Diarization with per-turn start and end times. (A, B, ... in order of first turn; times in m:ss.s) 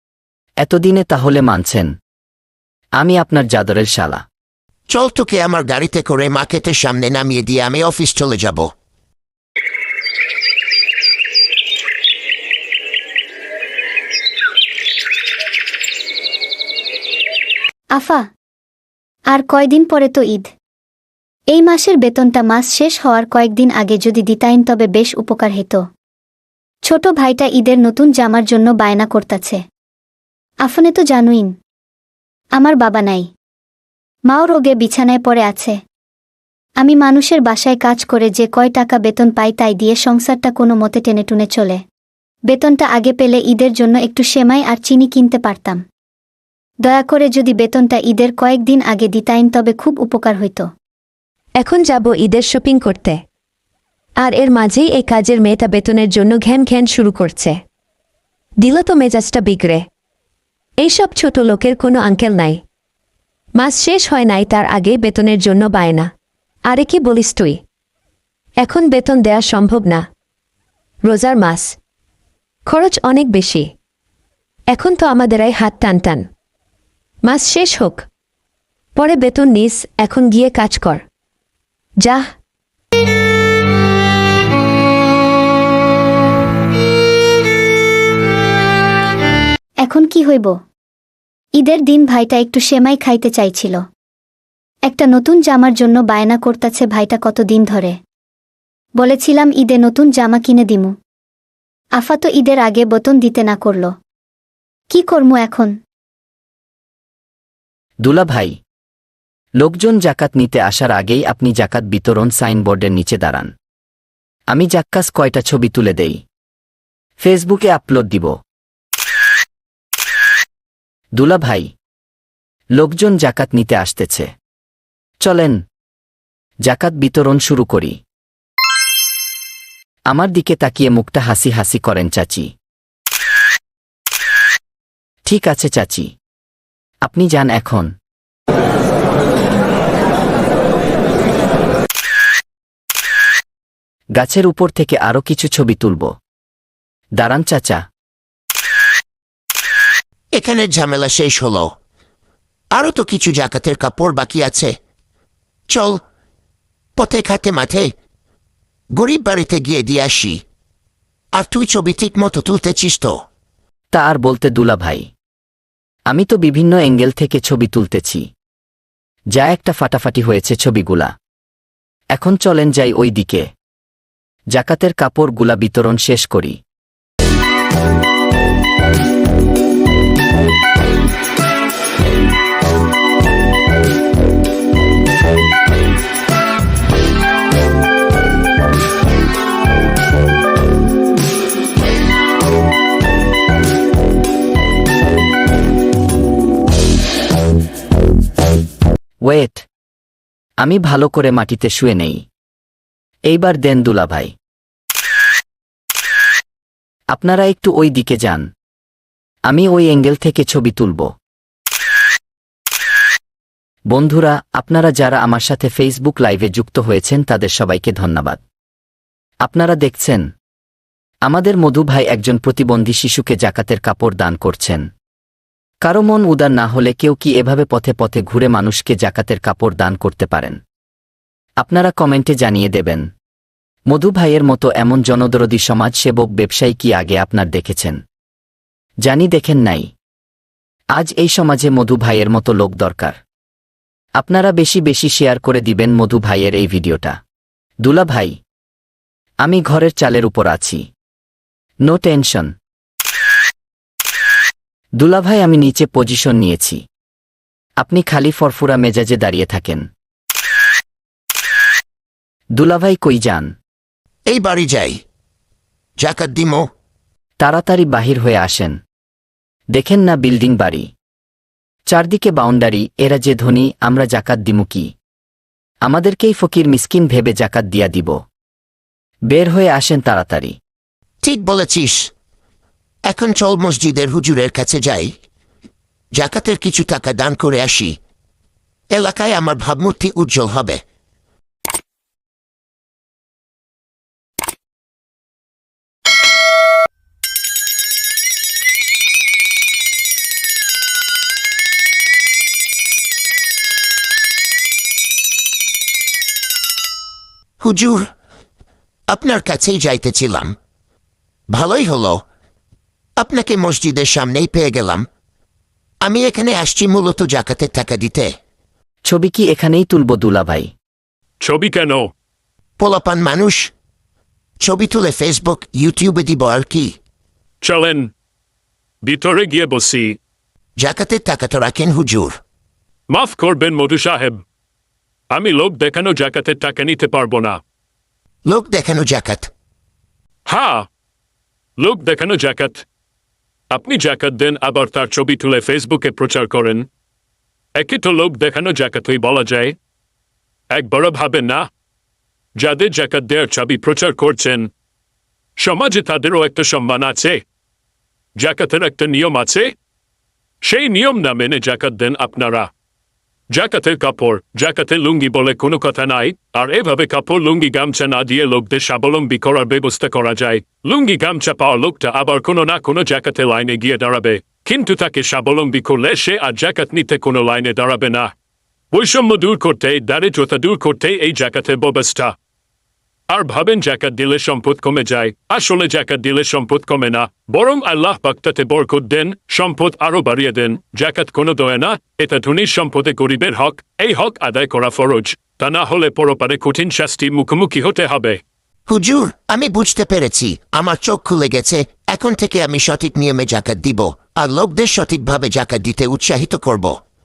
0:00.6-0:01.9 A
0:03.0-0:04.2 A
0:04.9-0:08.7 B
0:17.9-0:18.2 C
0:19.3-0:20.5 C
0:21.5-0:25.8 C
0:26.9-0:29.6 C
0:30.6-0:31.5 C
0:32.6-0:33.3 C
0:34.3-0:35.8 C
0:36.8-0:41.8 C
0:42.5-0:45.8 C
0:46.8-0:50.6 C
0:51.6-0:53.2 D
0:54.2-0:57.6 D
0:58.6-0:59.8 D
1:00.8-1:02.6 D
1:03.5-1:06.1 D
1:06.7-1:07.6 D
1:08.6-1:10.0 D
1:11.0-1:11.8 D
1:12.6-1:13.7 D
1:14.7-1:16.3 D
1:17.2-1:18.0 D
1:18.9-1:21.0 D
1:22.0-1:22.3 D
1:29.8-1:30.5 C
1:31.6-1:33.8 C
1:34.9-1:38.0 C
1:39.0-1:40.9 C
1:42.0-1:43.9 C
1:44.9-1:45.7 C
1:48.0-1:48.6 A
1:49.6-1:53.5 A
1:54.5-1:56.2 A
1:57.2-1:58.3 A
2:01.2-2:01.7 A
2:02.8-2:04.3 A
2:05.2-2:05.6 A
2:06.6-2:08.0 A
2:10.1-2:12.5 A
2:15.2-2:16.1 A
2:17.0-2:17.9 A
2:24.2-2:26.1 A
2:27.2-2:27.8 A
2:30.3-2:31.7 B
2:32.7-2:34.7 B
2:35.7-2:36.0 B
2:37.0-2:37.9 B
2:39.0-2:40.4 B
2:41.4-2:43.1 B
2:43.9-2:45.1 A
2:46.1-2:48.3 A
2:49.3-2:51.1 A
2:52.1-2:53.5 A
2:54.5-2:56.6 A
3:19.2-3:19.6 A
3:20.6-3:22.2 A
3:23.3-3:24.3 A
3:27.1-3:28.5 A
3:29.5-3:31.1 A
3:33.9-3:38.4 A
3:39.4-3:40.3 A
3:41.2-3:44.9 A
3:45.8-3:50.6 A
3:51.6-3:53.1 A
3:53.9-3:58.0 A
3:59.0-3:59.9 A
4:01.0-4:03.2 A
4:04.2-4:07.2 A
4:07.8-4:08.4 A
4:09.4-4:10.9 A
4:11.8-4:12.5 A
4:15.0-4:16.8 A
4:17.8-4:19.9 A
4:22.5-4:23.5 A
4:24.3-4:25.0 B
4:26.0-4:26.6 B
4:27.4-4:28.8 A
4:29.7-4:30.9 A
4:31.9-4:34.9 A
4:35.8-4:38.2 A
4:39.3-4:40.6 A
4:41.2-4:42.1 B
4:43.1-4:45.1 B
4:46.2-4:48.0 B
4:48.9-4:50.8 B
5:07.6-5:08.0 B
5:09.1-5:10.6 B
5:11.5-5:12.2 B
5:13.2-5:15.1 B
5:16.0-5:18.3 B
5:19.0-5:20.7 A
5:21.4-5:22.1 E
5:22.8-5:23.7 B
5:24.6-5:26.9 B
5:27.6-5:28.1 E
5:29.0-5:30.2 E
5:30.8-5:32.4 B
5:33.1-5:34.4 E
5:35.3-5:37.6 E
5:38.5-5:39.5 B
5:40.4-5:40.9 E
5:41.8-5:42.8 E
5:43.7-5:46.9 E
5:47.7-5:49.8 E
5:50.7-5:51.7 E
5:52.6-5:54.7 E
5:55.6-5:57.4 E
5:58.4-5:59.7 E
6:00.6-6:02.7 E
6:03.5-6:18.3 E
6:18.9-6:22.3 E
6:23.3-6:38.4 E
6:38.9-6:46.9 B